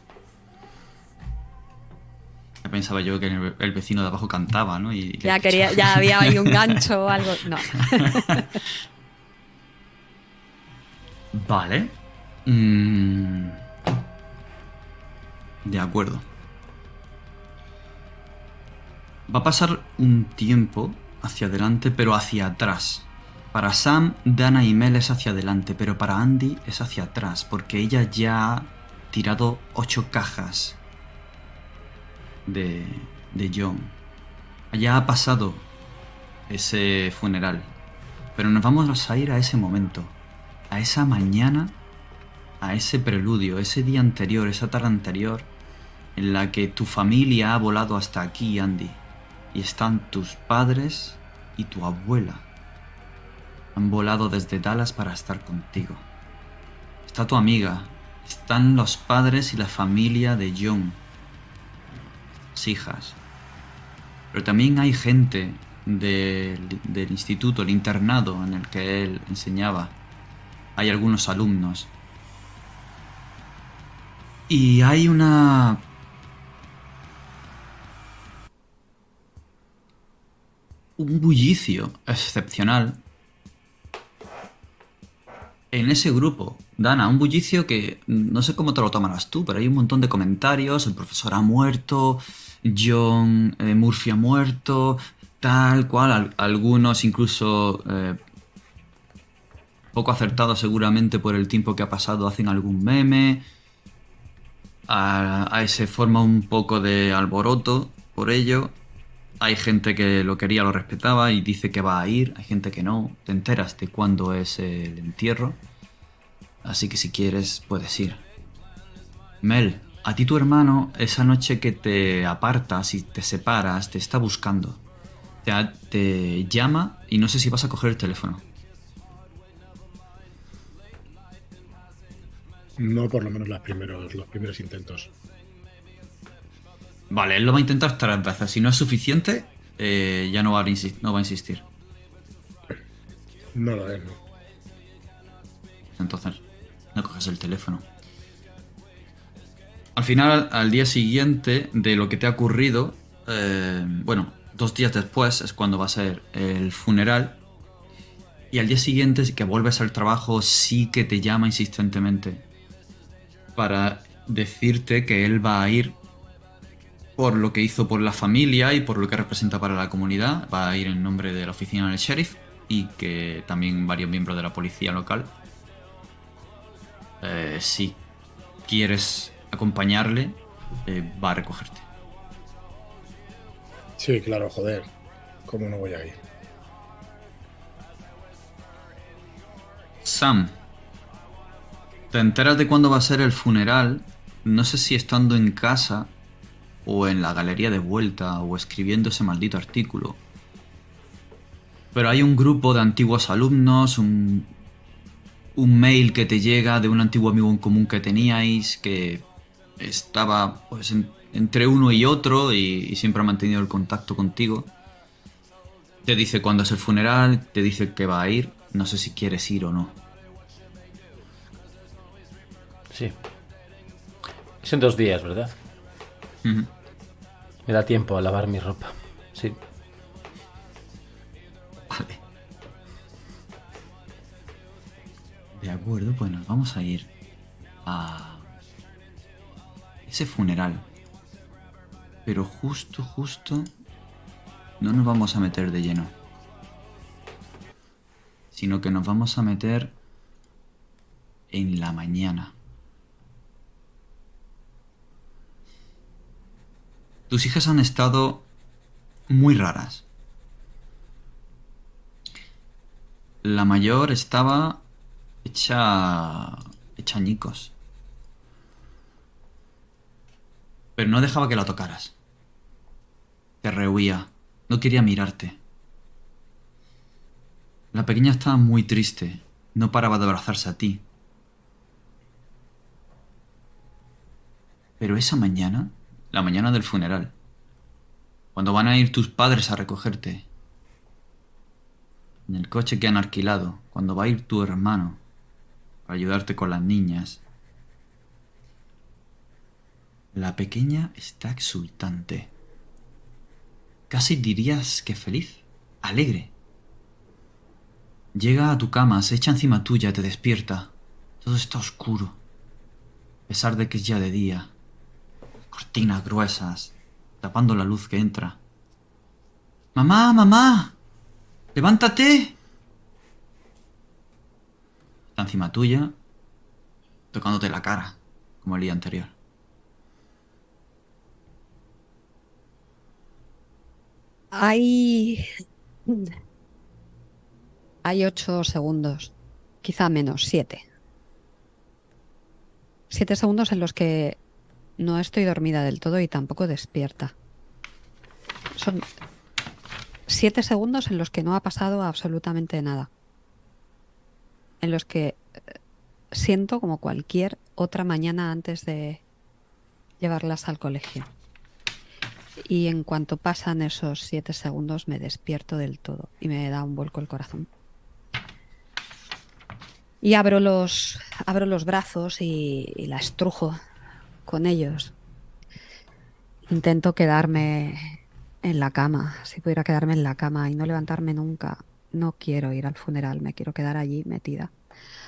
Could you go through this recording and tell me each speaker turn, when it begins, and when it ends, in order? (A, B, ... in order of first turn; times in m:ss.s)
0:02.6-0:06.6 A
0:05.2-0:08.6 B
0:07.9-0:08.4 A
0:11.3-0:13.6 A
0:15.6-0:16.2 A
0:19.3-0:30.8 A
0:32.4-0:33.9 A
0:34.7-0:35.6 A
0:36.5-0:37.7 A
0:38.4-0:40.2 A
0:40.7-0:41.8 A
0:42.6-0:45.5 A
0:46.2-0:49.0 A
0:49.5-0:52.5 A
0:53.7-0:56.0 A
0:57.1-1:01.0 A
1:02.4-1:03.2 A
1:04.3-1:09.9 A
1:10.8-1:11.9 A
1:14.5-1:15.8 A
1:21.0-1:23.0 A
1:25.7-1:38.2 A
1:39.9-1:43.4 A
1:44.9-1:48.8 A
1:49.4-1:55.6 A
1:56.6-1:58.2 A
1:59.4-2:04.8 A
2:05.4-2:08.4 A
2:12.8-2:15.1 C
2:17.1-2:21.6 A
2:23.5-2:24.2 C
2:25.9-2:26.4 A
2:26.9-2:27.8 A
2:30.0-2:37.4 A
2:38.5-2:42.4 A
2:43.6-2:46.0 A
2:47.2-2:55.3 A
2:57.2-2:58.0 A
2:58.6-3:01.8 A
3:04.0-3:04.9 C
3:05.4-3:06.1 C
3:10.0-3:10.5 A
3:12.1-3:16.1 A
3:16.8-3:20.2 A
3:21.9-3:24.5 A
3:25.5-3:29.2 A
3:29.8-3:34.7 A
3:36.0-3:40.0 A
3:42.9-3:43.2 D
3:44.6-3:45.6 D
3:46.4-3:46.7 A
3:47.6-3:49.6 D
3:51.9-3:52.2 A
3:55.5-3:57.1 A
3:57.8-3:58.4 A
4:00.1-4:00.8 A
4:02.2-4:03.7 A
4:04.8-4:06.1 A
4:08.5-4:09.9 A
4:11.5-4:12.5 A
4:17.3-4:18.4 A
4:19.3-4:20.0 A
4:23.4-4:24.8 A
4:25.4-4:27.7 A
4:31.0-4:32.1 A
4:33.6-4:35.6 A
4:37.9-4:41.0 A
4:45.0-4:47.3 A
4:48.5-4:50.5 A
4:52.5-4:55.2 A
4:56.0-4:57.4 A
5:00.3-5:02.5 A
5:04.1-5:06.5 A
5:08.3-5:12.4 A
5:13.5-5:14.7 A
5:15.7-5:18.6 A
5:19.9-5:20.9 A
5:21.7-5:22.5 A
5:25.3-5:26.1 A
5:27.3-5:29.3 A
5:34.5-5:35.5 B
5:36.1-5:36.3 B
5:38.0-5:40.8 B
5:43.1-5:44.4 B
5:45.0-5:47.3 B
5:48.8-5:49.1 B
5:50.3-5:53.1 B
5:54.8-5:55.7 B
5:56.3-5:59.2 B
6:00.2-6:01.3 B
6:02.6-6:07.7 B
6:10.2-6:13.8 B
6:14.4-6:15.1 B
6:16.7-6:24.7 B